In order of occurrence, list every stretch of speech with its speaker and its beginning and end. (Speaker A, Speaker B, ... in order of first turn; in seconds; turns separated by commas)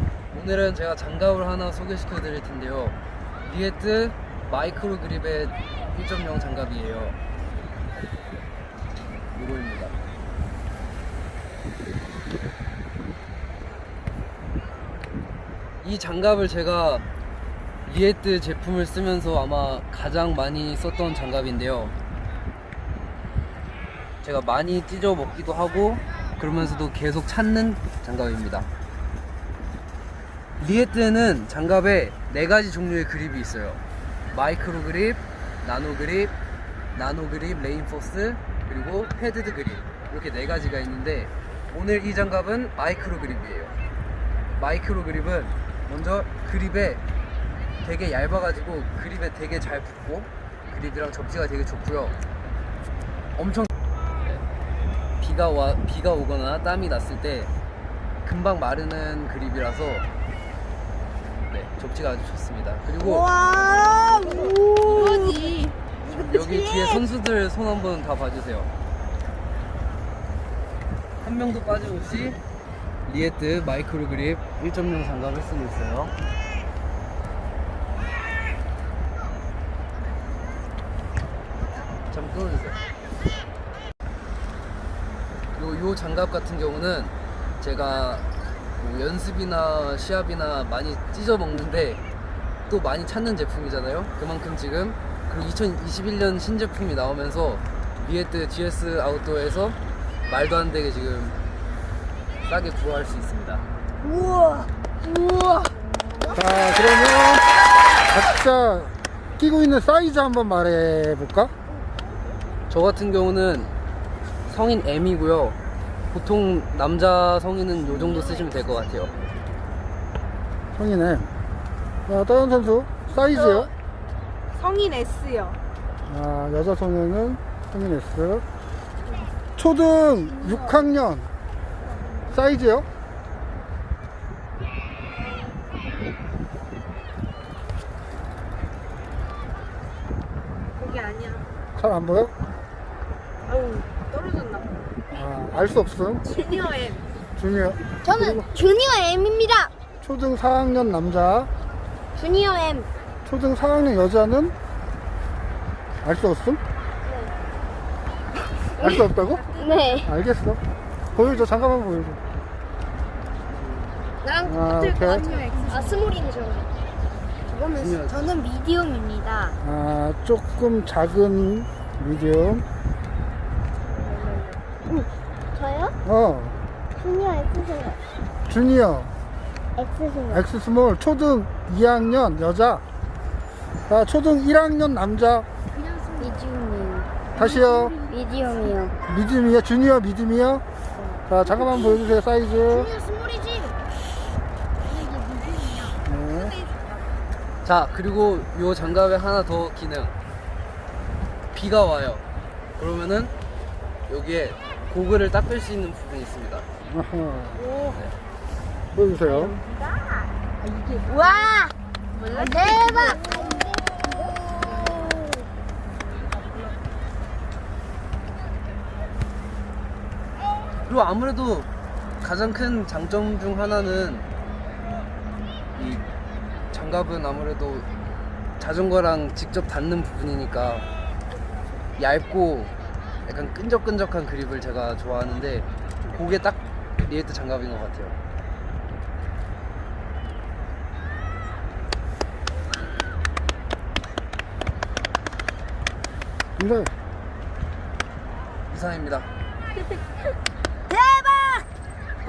Speaker A: 0.3-7.2, Speaker A: 9.3-10.0, Speaker A: 15.8-17.1, Speaker A: 17.9-21.9, Speaker A: 24.2-28.7, Speaker A: 30.6-36.3, Speaker A: 37.0-43.8, Speaker A: 44.6-47.0, Speaker A: 47.8-52.2, Speaker A: 53.4-53.7, Speaker A: 55.2-57.5, Speaker A: 58.2-60.1, Speaker A: 61.5-63.3, Speaker B: 63.0-67.0, Speaker C: 63.6-65.7, Speaker A: 66.2-68.7, Speaker A: 71.2-72.4, Speaker A: 73.1-76.2, Speaker A: 82.1-82.8, Speaker A: 85.5-92.0, Speaker A: 92.7-101.4, Speaker A: 102.4-103.7, Speaker B: 104.0-106.4, Speaker D: 106.3-107.4, Speaker D: 108.1-111.5, Speaker A: 112.7-113.7, Speaker A: 114.5-115.6, Speaker A: 116.1-119.1, Speaker D: 120.8-121.3, Speaker D: 122.1-123.7, Speaker C: 123.2-123.7, Speaker C: 124.5-125.6, Speaker D: 126.1-128.4, Speaker D: 129.6-131.3, Speaker C: 130.3-130.7, Speaker D: 132.3-132.8, Speaker C: 135.1-135.7, Speaker C: 140.8-141.5, Speaker D: 141.8-142.3, Speaker C: 143.4-144.8, Speaker D: 145.1-146.2, Speaker C: 146.2-147.0, Speaker D: 147.4-148.5, Speaker B: 148.0-149.7, Speaker D: 150.0-151.5, Speaker B: 152.2-152.9, Speaker D: 153.3-154.5, Speaker D: 156.0-156.6, Speaker B: 157.1-157.3, Speaker B: 158.8-160.1, Speaker D: 158.8-159.4, Speaker C: 159.2-160.0, Speaker D: 160.1-160.6, Speaker D: 161.2-162.2, Speaker A: 163.5-163.9, Speaker B: 164.2-166.7, Speaker D: 164.4-165.2, Speaker C: 165.1-166.0, Speaker B: 167.5-169.6, Speaker A: 167.8-168.4, Speaker D: 169.6-172.6, Speaker C: 174.1-174.5, Speaker B: 174.8-176.0, Speaker D: 176.1-176.5, Speaker B: 176.9-178.0, Speaker D: 178.5-179.1, Speaker B: 179.8-180.5, Speaker D: 180.3-182.8, Speaker D: 183.9-185.4, Speaker B: 186.1-188.9, Speaker D: 187.4-187.9, Speaker C: 187.9-188.8, Speaker D: 189.1-190.6, Speaker B: 190.9-193.8, Speaker D: 191.3-192.9, Speaker B: 194.9-195.9, Speaker D: 196.1-196.5, Speaker C: 196.1-197.3, Speaker A: 197.6-200.1, Speaker A: 201.5-202.2, Speaker A: 202.8-203.3, Speaker A: 204.1-206.7, Speaker D: 206.9-207.6, Speaker C: 207.5-208.0, Speaker A: 207.9-208.2, Speaker D: 208.9-209.5, Speaker B: 209.3-210.3, Speaker C: 210.6-211.6, Speaker B: 211.1-211.7, Speaker C: 212.1-215.3, Speaker B: 212.3-215.2, Speaker C: 216.1-216.8, Speaker A: 220.8-221.7, Speaker A: 222.2-224.3, Speaker A: 225.8-226.0, Speaker A: 226.7-227.9, Speaker A: 228.6-230.9, Speaker A: 232.0-232.7, Speaker A: 233.2-238.2, Speaker D: 246.6-246.9, Speaker A: 248.7-249.3, Speaker B: 250.9-251.7